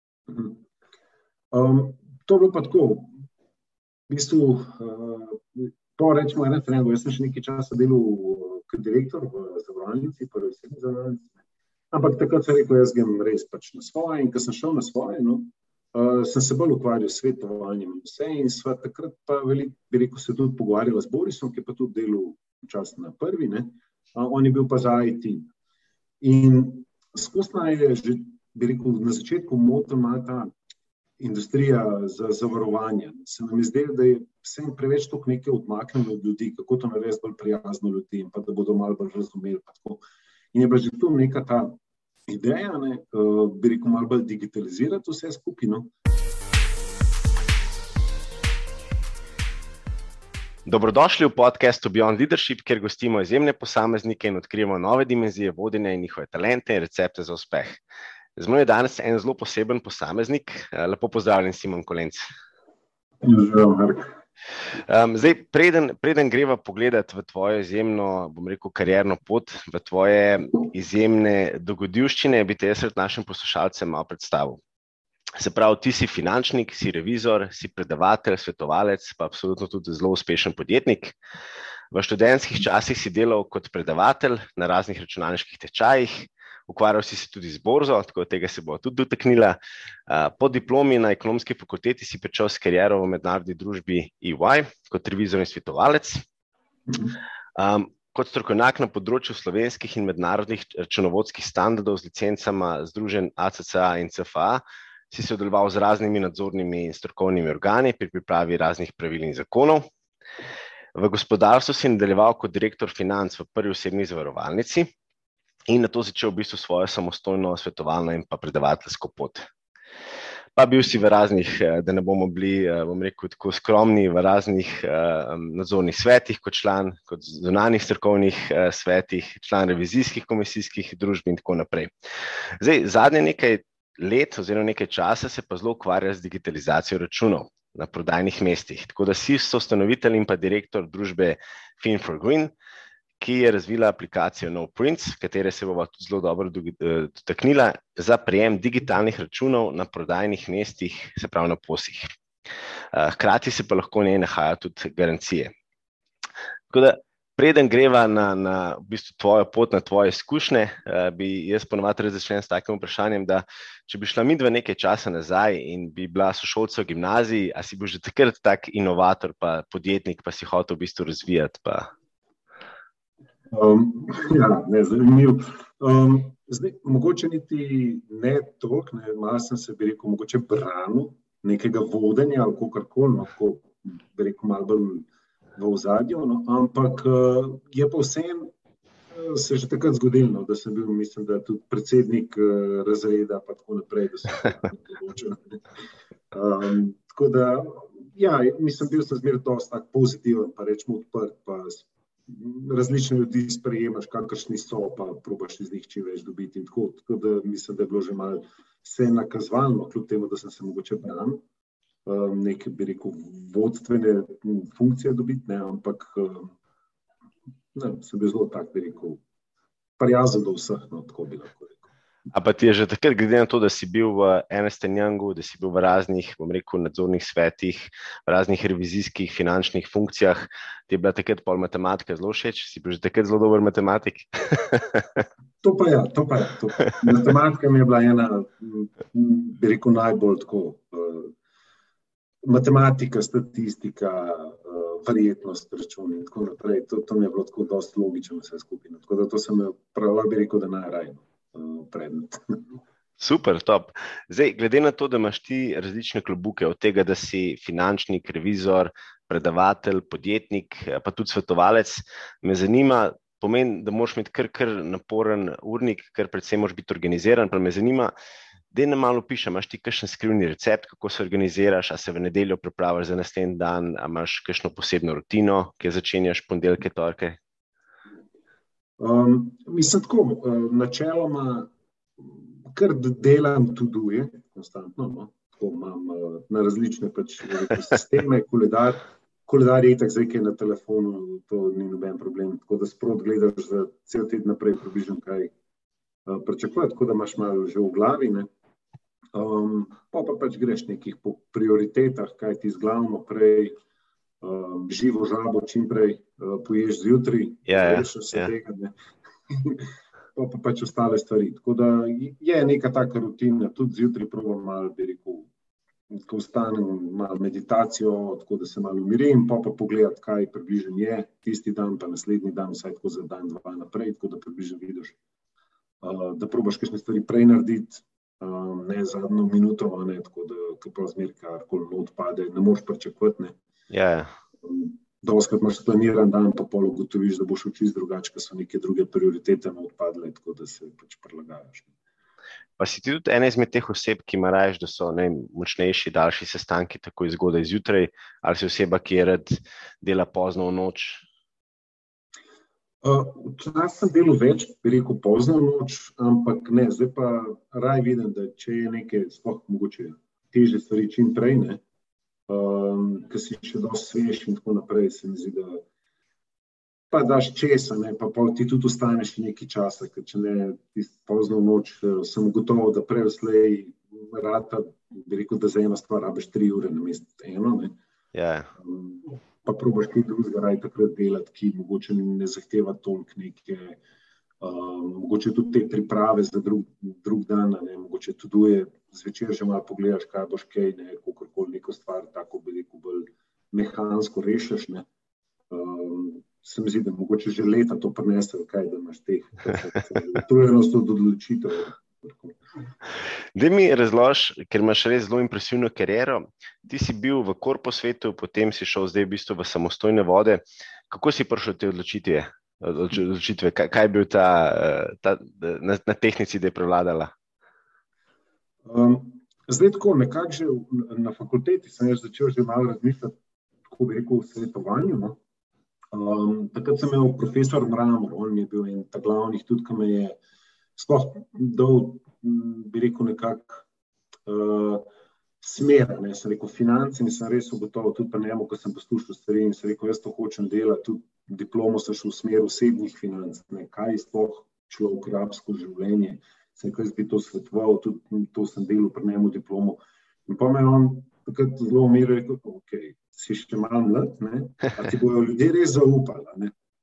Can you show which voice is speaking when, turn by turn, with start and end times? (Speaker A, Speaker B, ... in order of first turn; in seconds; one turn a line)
Speaker A: 0.3-0.6
Speaker A: 1.5-3.1
Speaker A: 4.1-11.3
Speaker A: 11.9-25.5
Speaker A: 26.2-30.5
Speaker A: 31.2-40.0
Speaker A: 40.5-41.8
Speaker A: 42.3-45.9
Speaker B: 50.6-57.8
Speaker B: 58.4-62.2
Speaker A: 63.2-64.1
Speaker B: 64.9-74.6
Speaker B: 75.4-81.1
Speaker B: 81.9-96.2
Speaker B: 97.6-109.8
Speaker B: 110.9-114.9
Speaker B: 115.7-119.5
Speaker B: 120.5-131.9
Speaker B: 132.6-142.5
Speaker B: 143.2-152.1
Speaker B: 152.9-155.5
Speaker B: 156.7-171.9
Speaker A: 173.5-188.5
Speaker A: 189.1-195.6
Speaker A: 196.3-211.4
Speaker A: 212.1-216.5
Speaker A: 217.7-219.2
Speaker A: 220.0-221.9
Speaker B: 222.3-235.2
Speaker A: 235.6-241.3
Speaker A: 242.4-252.8
Speaker B: 253.2-268.1
Speaker B: 268.7-277.4
Speaker A: 279.0-295.5
Speaker A: 296.2-298.5
Speaker A: 299.3-303.7
Speaker A: 304.4-308.9
Speaker B: 307.7-308.5
Speaker A: 309.5-315.5
Speaker A: 316.1-325.2
Speaker A: 326.0-333.5
Speaker B: 333.9-334.3
Speaker A: 334.6-341.9
Speaker B: 342.8-351.2
Speaker A: 353.0-361.8
Speaker A: 362.5-365.8
Speaker A: 367.1-377.9
Speaker B: 378.3-378.7
Speaker A: 378.8-384.0
Speaker A: 384.6-395.1
Speaker A: 395.7-402.6
Speaker B: 403.5-417.3
Speaker A: 418.8-423.4
Speaker A: 423.9-425.4
Speaker A: 426.1-430.4
Speaker A: 431.0-433.8
Speaker A: 434.4-435.1
Speaker A: 435.6-456.7